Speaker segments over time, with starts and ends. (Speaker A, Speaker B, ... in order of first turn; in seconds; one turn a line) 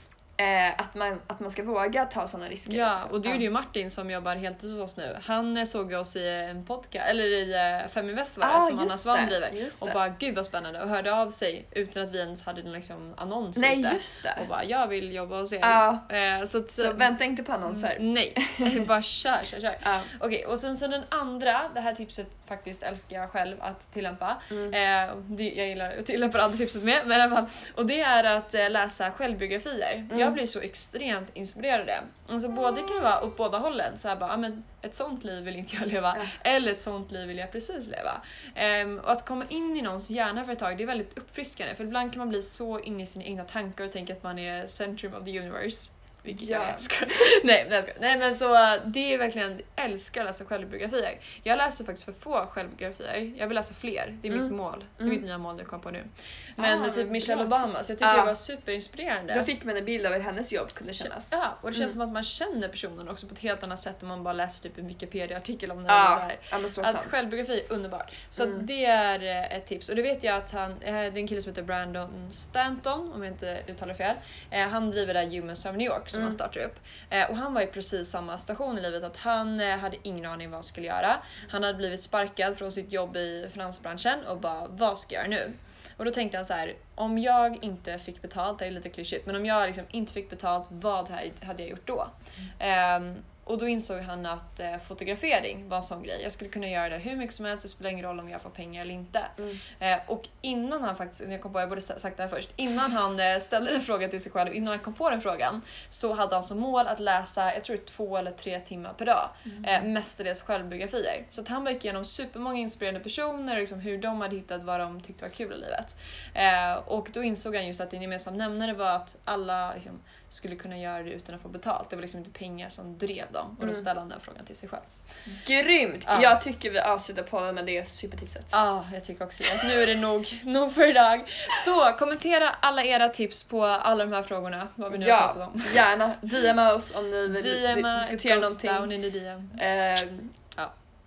Speaker A: 0.4-3.4
Speaker B: 2.6-17.1
Speaker A: 8.4-10.0
Speaker A: 13.6-14.4
Speaker A: 15.6-16.0
Speaker A: 16.7-18.9
Speaker B: 17.6-59.5
Speaker A: 19.8-20.1
Speaker A: 30.1-30.4
Speaker A: 46.3-46.9
Speaker A: 54.3-55.2
Speaker A: 56.6-58.3
Speaker A: 59.3-61.9
Speaker B: 61.3-124.9
Speaker A: 65.9-67.2
Speaker A: 68.4-68.6
Speaker A: 76.1-76.4
Speaker A: 109.5-109.8
Speaker A: 125.3-128.5
Speaker B: 126.0-126.3
Speaker B: 128.5-135.9
Speaker A: 129.5-129.8
Speaker A: 134.9-138.9
Speaker B: 137.3-139.6
Speaker A: 139.5-140.4